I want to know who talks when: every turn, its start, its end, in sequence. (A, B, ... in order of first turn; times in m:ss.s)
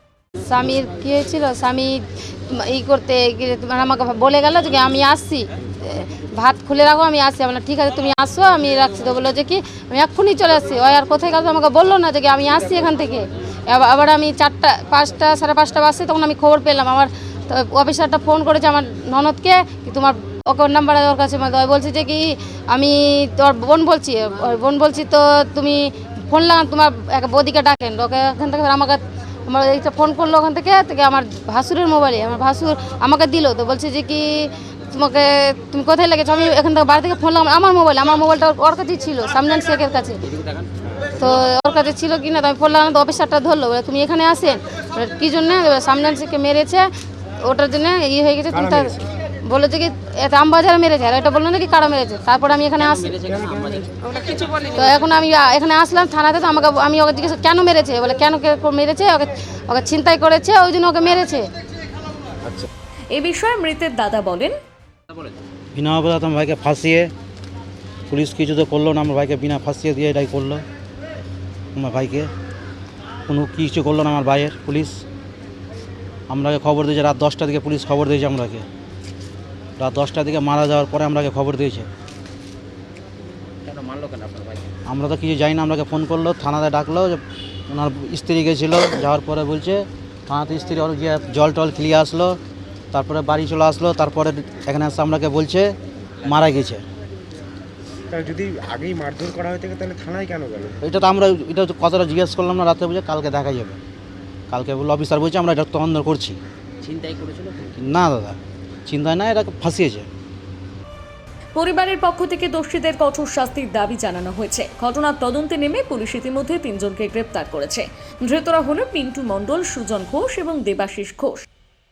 0:00.5-0:40.2 A
0:40.2-0:40.7 B
0:40.9-0:41.3 C
0:41.2-0:46.9 A
0:47.4-0:53.2 A
0:48.5-0:49.1 C
0:52.8-0:54.2 B
0:53.2-0:53.8 C
0:54.6-1:01.5 A
1:03.1-1:04.6 D
1:05.7-1:07.1 E
1:08.1-1:10.6 E
1:11.7-1:12.3 E
1:13.3-1:15.0 E
1:16.3-1:18.6 E
1:19.8-1:21.9 E
1:23.6-1:24.7 B
1:24.8-1:32.4 E
1:32.9-1:36.8 E
1:38.1-1:40.7 C
1:40.8-1:43.8 E
1:44.5-1:46.4 E
1:46.8-1:47.8 B
1:47.8-1:50.1 E
1:51.5-2:01.4 D